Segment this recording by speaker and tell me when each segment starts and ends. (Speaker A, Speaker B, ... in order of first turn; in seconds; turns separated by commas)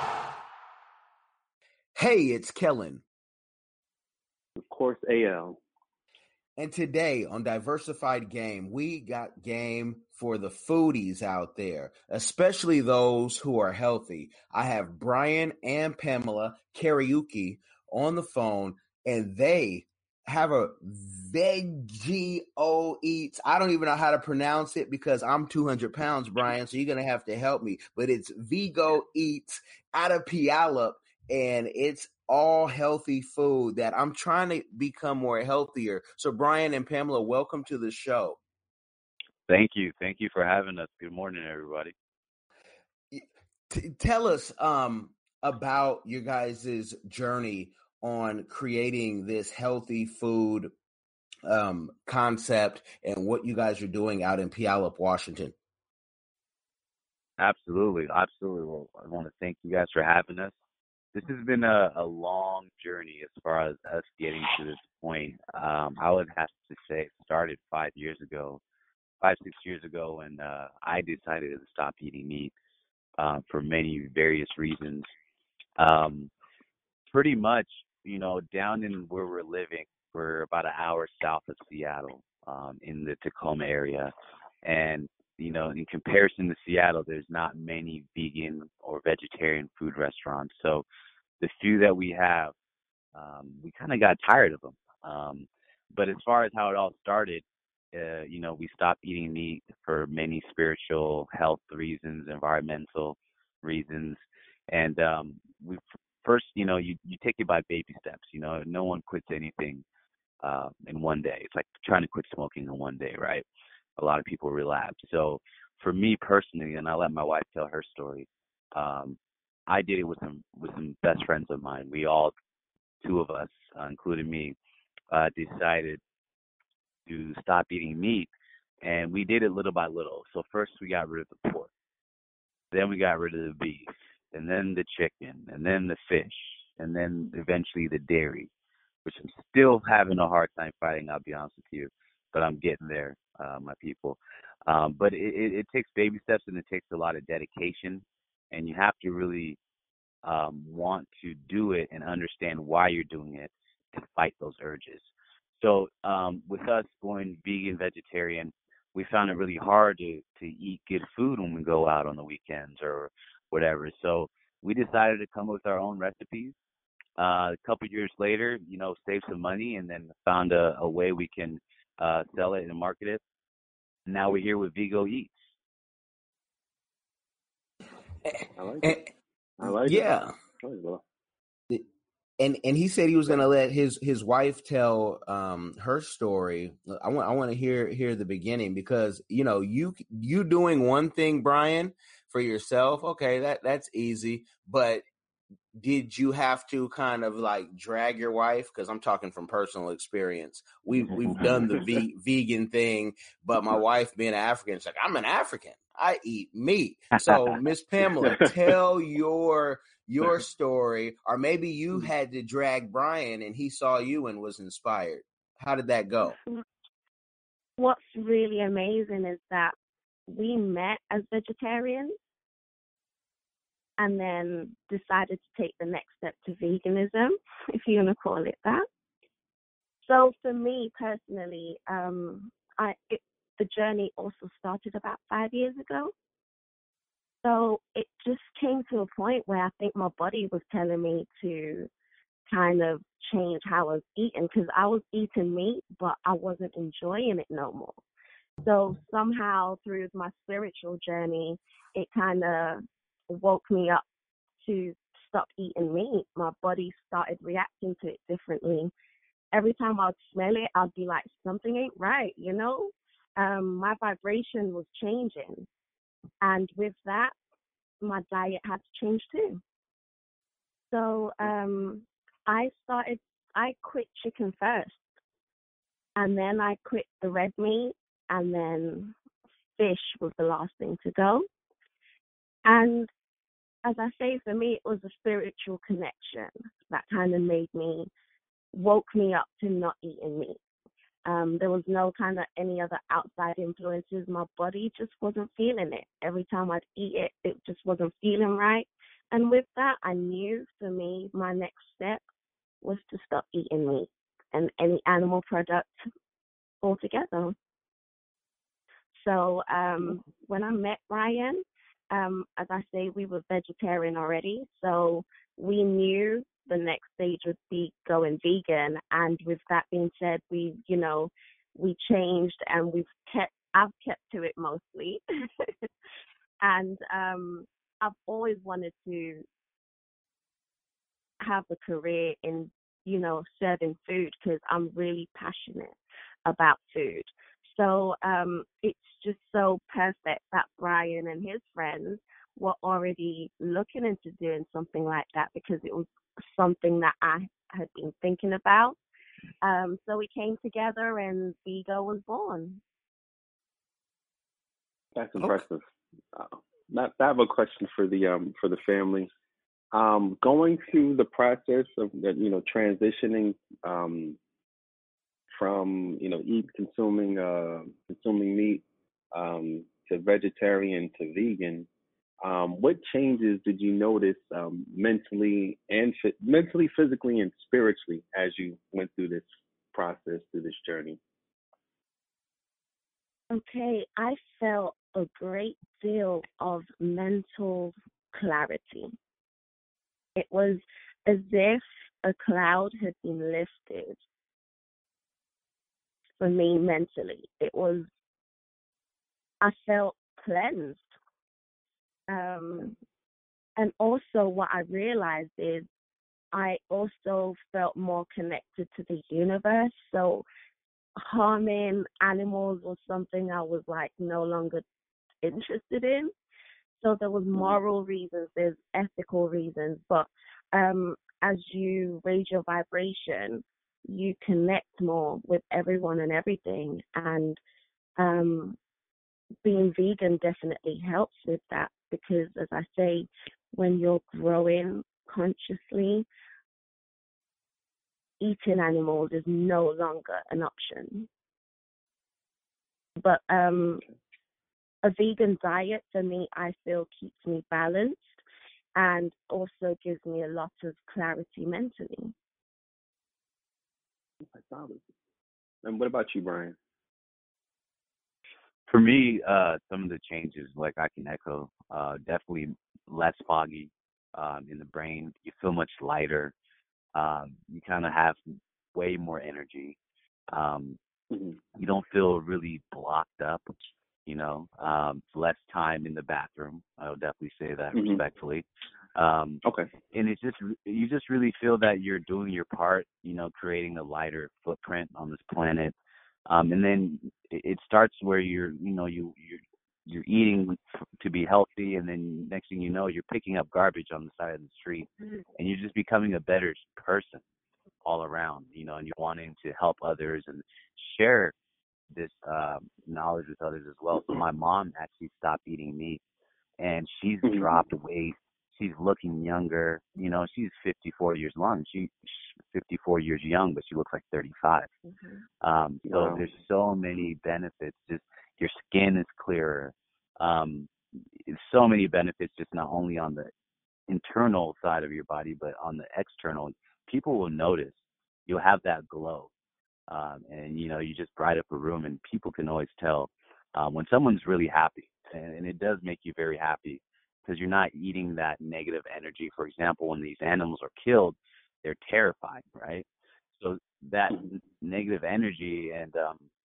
Speaker A: 1.9-3.0, Speaker B: 4.6-5.6, Speaker A: 6.6-38.4, Speaker C: 39.5-41.9, Speaker A: 43.1-50.7, Speaker A: 51.4-55.5, Speaker C: 57.4-60.5, Speaker C: 61.1-68.6, Speaker C: 69.2-72.5, Speaker C: 73.2-75.1, Speaker C: 75.8-76.3, Speaker C: 77.1-84.1, Speaker C: 84.6-90.8, Speaker C: 91.4-92.5, Speaker C: 93.1-109.8, Speaker C: 110.4-113.4, Speaker C: 114.0-119.2, Speaker C: 119.7-122.3, Speaker C: 123.0-124.5, Speaker C: 125.1-126.0, Speaker C: 127.1-128.3, Speaker C: 128.8-131.7, Speaker C: 132.7-138.5, Speaker C: 139.0-149.6, Speaker C: 150.2-155.0, Speaker C: 155.6-166.6, Speaker C: 167.2-173.2, Speaker C: 174.1-175.3, Speaker A: 178.3-179.0, Speaker B: 178.6-179.0, Speaker B: 179.6-181.0, Speaker A: 179.6-180.3, Speaker A: 182.4-195.0, Speaker A: 195.7-216.4, Speaker B: 201.3-201.8, Speaker B: 208.2-208.5, Speaker D: 217.8-219.7, Speaker D: 220.3-222.1, Speaker D: 224.0-228.8, Speaker D: 230.1-236.1, Speaker D: 237.4-241.9, Speaker D: 242.5-248.0, Speaker D: 248.6-254.0, Speaker D: 254.6-258.9, Speaker D: 259.5-265.7, Speaker D: 266.4-267.3, Speaker D: 268.0-269.6, Speaker D: 270.9-275.0, Speaker D: 276.1-279.1, Speaker D: 279.8-281.4, Speaker D: 282.6-283.1, Speaker D: 283.8-288.1, Speaker D: 288.7-290.6, Speaker D: 291.2-302.2, Speaker D: 302.8-305.9, Speaker D: 306.8-307.6, Speaker D: 309.2-325.7, Speaker D: 326.6-329.4, Speaker D: 331.4-335.9, Speaker D: 336.4-349.0, Speaker D: 349.6-352.8, Speaker B: 355.1-359.3, Speaker B: 359.9-364.4, Speaker B: 365.5-371.9, Speaker B: 372.4-381.2, Speaker D: 383.5-389.1, Speaker D: 390.4-394.2, Speaker D: 396.4-398.1, Speaker D: 399.6-401.0, Speaker D: 402.3-402.9, Speaker D: 403.8-405.9, Speaker D: 406.5-410.4, Speaker D: 411.2-414.8, Speaker D: 415.4-416.3, Speaker D: 417.0-427.6, Speaker D: 428.2-428.8, Speaker D: 429.6-436.2, Speaker D: 438.4-441.3, Speaker D: 443.2-444.0, Speaker D: 445.0-448.4, Speaker D: 448.9-452.3, Speaker B: 454.5-455.0, Speaker B: 455.8-456.8, Speaker C: 458.9-466.5, Speaker C: 467.1-468.4, Speaker C: 468.9-470.0, Speaker C: 470.5-471.0, Speaker B: 471.3-471.6, Speaker C: 471.7-473.6, Speaker C: 474.2-485.9, Speaker B: 477.9-478.2, Speaker C: 486.5-497.4, Speaker C: 498.0-501.5, Speaker C: 502.1-506.2, Speaker C: 506.8-514.9, Speaker B: 507.4-507.7, Speaker C: 515.6-520.9, Speaker B: 516.1-516.5, Speaker C: 521.4-523.5, Speaker C: 524.1-529.5, Speaker C: 530.1-543.0, Speaker C: 543.6-546.5